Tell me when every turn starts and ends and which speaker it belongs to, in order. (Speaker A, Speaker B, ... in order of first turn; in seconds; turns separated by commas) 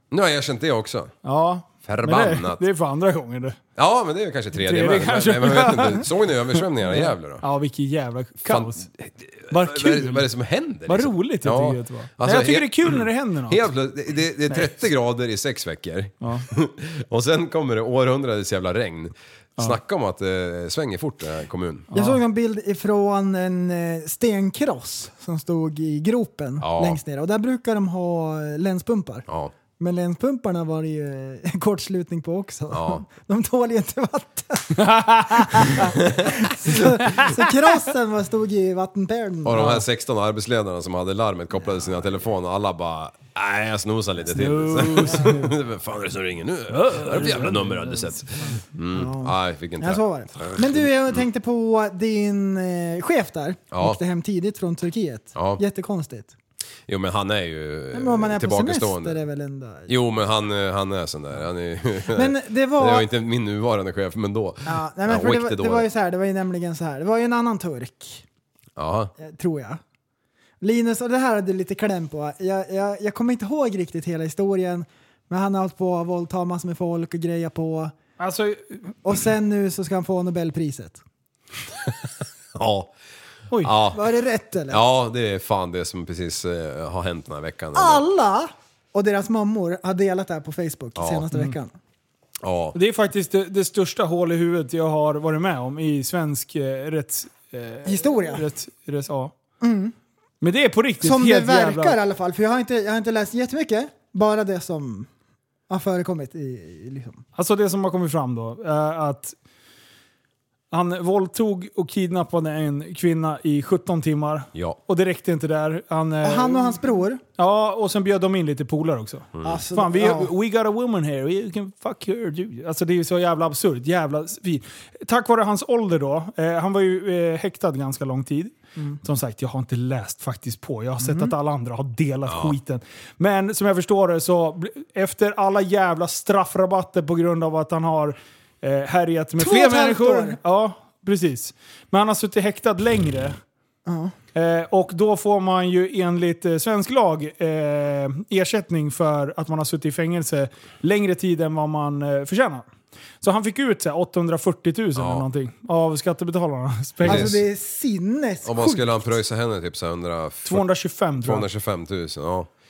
Speaker A: 0.1-1.1, Speaker B: 1.2-3.6, Speaker A: 1.8-2.6, Speaker A: 3.8-7.4, Speaker B: 4.5-8.9, Speaker A: 8.4-21.9, Speaker B: 9.5-10.3, Speaker B: 10.9-13.7, Speaker B: 14.5-14.8, Speaker B: 16.2-16.5, Speaker C: 21.9-29.3, Speaker A: 26.6-27.0, Speaker A: 29.3-29.5, Speaker C: 29.8-39.7, Speaker A: 32.7-33.0, Speaker B: 34.8-35.7, Speaker A: 35.9-36.9, Speaker B: 37.0-37.5, Speaker A: 39.4-51.2, Speaker B: 39.5-39.8, Speaker B: 44.3-45.5, Speaker B: 46.7-48.1, Speaker C: 48.4-56.3, Speaker A: 53.7-54.0, Speaker A: 55.4-55.6, Speaker A: 56.9-59.2, Speaker C: 57.9-59.9, Speaker A: 59.9-65.9, Speaker C: 62.1-63.1, Speaker C: 64.7-68.2, Speaker A: 68.8-69.1, Speaker C: 69.2-69.8, Speaker C: 70.6-77.9, Speaker B: 78.2-78.9, Speaker C: 79.0-81.0, Speaker A: 82.5-82.9, Speaker A: 83.6-84.0, Speaker C: 83.9-84.8, Speaker A: 84.7-88.0, Speaker C: 87.7-91.7, Speaker A: 91.0-91.2, Speaker A: 92.4-92.8, Speaker B: 92.7-99.3, Speaker C: 97.8-98.5, Speaker C: 99.6-99.9, Speaker B: 100.4-102.0, Speaker C: 101.0-105.1, Speaker C: 105.7-107.2, Speaker B: 107.3-109.3, Speaker B: 110.7-116.8, Speaker A: 114.5-114.8, Speaker C: 116.2-117.2, Speaker B: 117.4-143.4, Speaker A: 119.3-119.6, Speaker C: 119.4-120.3, Speaker C: 131.0-131.3, Speaker A: 132.3-132.6, Speaker C: 139.4-140.4, Speaker C: 143.8-144.1, Speaker B: 144.3-152.7, Speaker B: 153.2-157.4, Speaker A: 154.9-155.2, Speaker A: 157.0-157.3, Speaker C: 157.1-159.0, Speaker A: 158.4-160.6, Speaker B: 160.4-161.4, Speaker A: 161.2-162.5